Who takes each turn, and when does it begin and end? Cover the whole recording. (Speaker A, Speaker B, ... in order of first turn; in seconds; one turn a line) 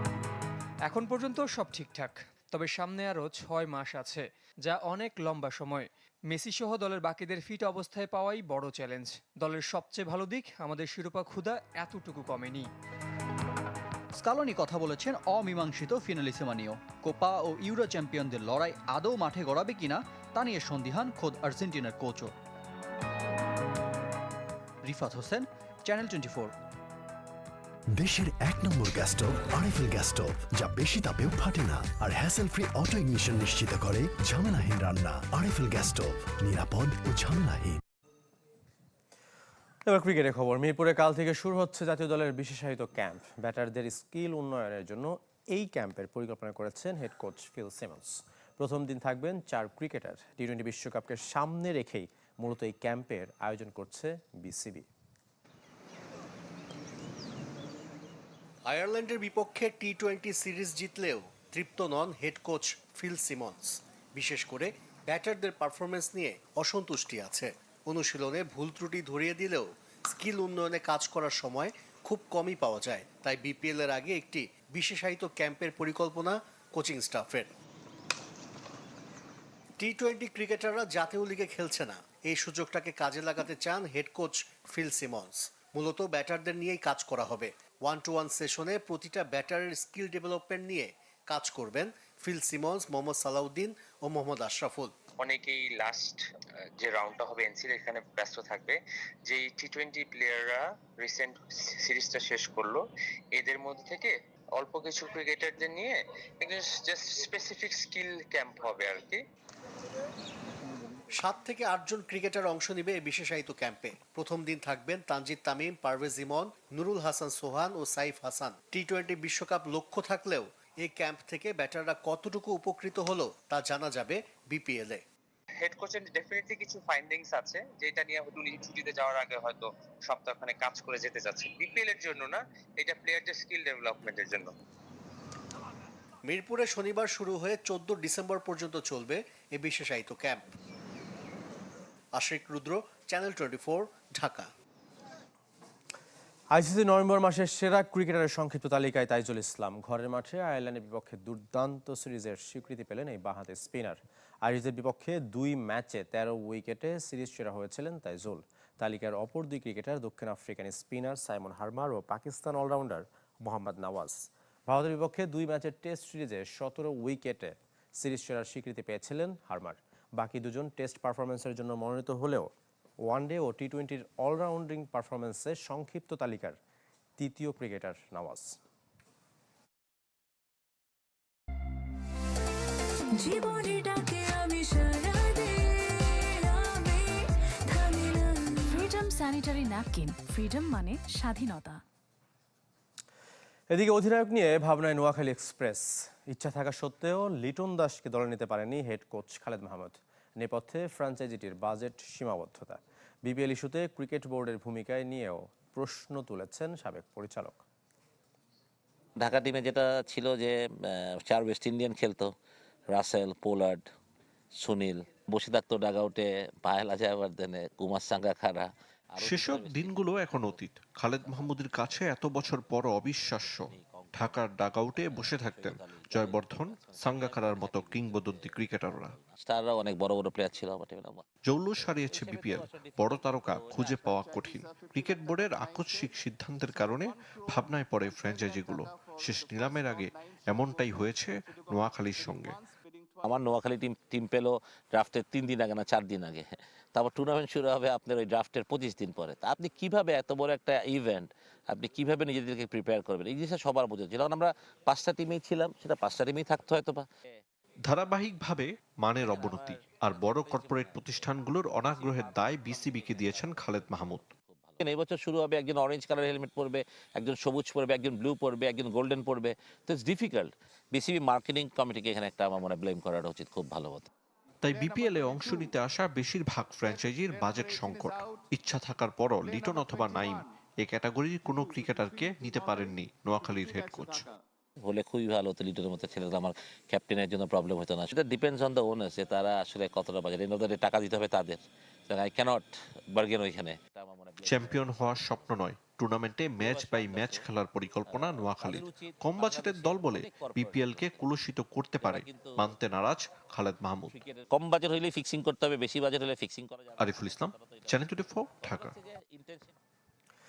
Speaker A: 0.9-12.7
Speaker B: 14.2-22.3
Speaker B: 24.8-26.5
Speaker C: 27.9-37.8
Speaker D: 39.9-54.9
Speaker E: 58.6-77.5
Speaker E: 79.8-95.0
Speaker F: 95.2-96.2
Speaker F: 96.8-109.2
Speaker E: 111.2-125.0
Speaker F: 125.6-134.5
Speaker E: 136.2-140.4
Speaker E: 142.1-144.5
Speaker D: 146.5-172.5
Speaker D: 173.1-176.6
Speaker D: 177.2-178.6
Speaker G: 183.1-191.8
Speaker D: 193.7-207.6
Speaker H: 209.2-212.3
Speaker H: 212.9-213.8
Speaker H: 214.6-220.6
Speaker I: 219.2-229.1
Speaker H: 221.2-221.5
Speaker H: 223.4-231.2
Speaker I: 231.4-242.6
Speaker H: 232.1-234.1
Speaker H: 243.2-257.0
Speaker I: 257.9-264.2
Speaker H: 259.2-261.1
Speaker H: 261.8-274.1
Speaker I: 274.6-284.3
Speaker H: 284.8-295.4
Speaker I: 294.4-304.1
Speaker H: 296.6-297.5
Speaker H: 298.1-301.2
Speaker H: 302.0-302.6
Speaker H: 304.1-308.0
Speaker I: 307.0-308.9
Speaker H: 308.6-309.7